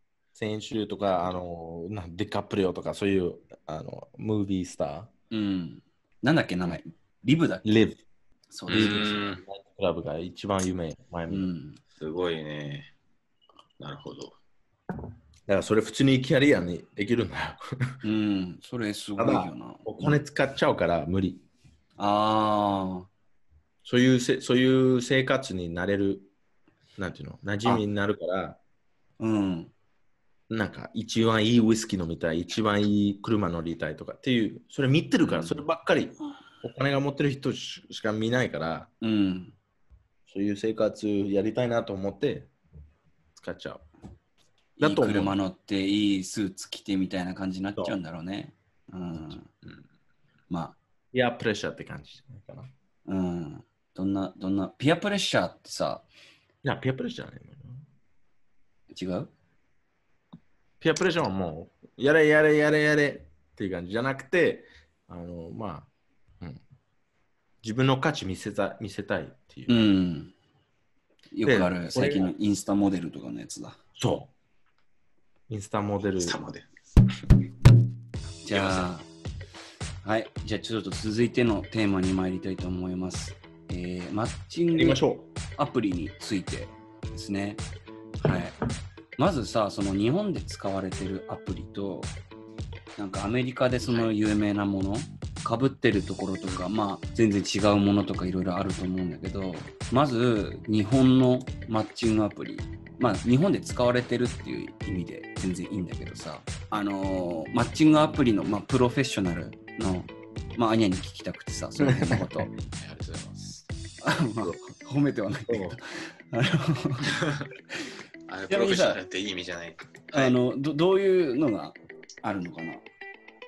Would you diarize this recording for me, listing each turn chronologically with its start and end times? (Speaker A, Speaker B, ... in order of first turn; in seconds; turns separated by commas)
Speaker A: 0.3-5.1, Speaker B: 5.3-7.7, Speaker A: 7.7-8.0, Speaker B: 8.5-9.3, Speaker C: 8.7-9.4, Speaker A: 8.7-11.5, Speaker B: 11.3-11.8, Speaker C: 12.0-12.9, Speaker C: 13.8-14.4, Speaker A: 15.5-18.0, Speaker B: 18.0-20.2, Speaker A: 19.2-21.4, Speaker B: 22.0-23.1, Speaker A: 23.9-26.3, Speaker A: 27.0-28.6, Speaker B: 29.2-29.7, Speaker A: 30.5-38.9, Speaker B: 35.3-35.6, Speaker B: 39.0-39.5, Speaker A: 40.3-42.5, Speaker A: 43.4-43.8, Speaker B: 44.8-49.5, Speaker A: 44.8-45.4, Speaker B: 50.5-50.8, Speaker A: 51.1-52.7, Speaker B: 53.1-56.0, Speaker A: 56.6-57.8, Speaker B: 58.9-59.3, Speaker A: 60.8-65.9, Speaker A: 67.6-69.8, Speaker B: 69.7-70.3, Speaker B: 71.3-73.8, Speaker A: 71.5-72.3, Speaker A: 74.0-74.3, Speaker A: 75.5-76.4, Speaker C: 76.2-76.7, Speaker B: 78.4-79.1, Speaker C: 78.5-78.9, Speaker B: 80.0-85.0, Speaker A: 84.7-85.3, Speaker B: 85.6-87.6, Speaker B: 88.2-88.5, Speaker B: 89.2-92.1, Speaker B: 93.0-112.5, Speaker C: 93.9-94.1, Speaker A: 111.8-112.2, Speaker C: 112.6-113.7, Speaker B: 114.0-117.2, Speaker A: 115.5-115.8, Speaker C: 117.1-117.5, Speaker C: 118.3-120.3, Speaker B: 118.5-119.0, Speaker B: 120.1-122.8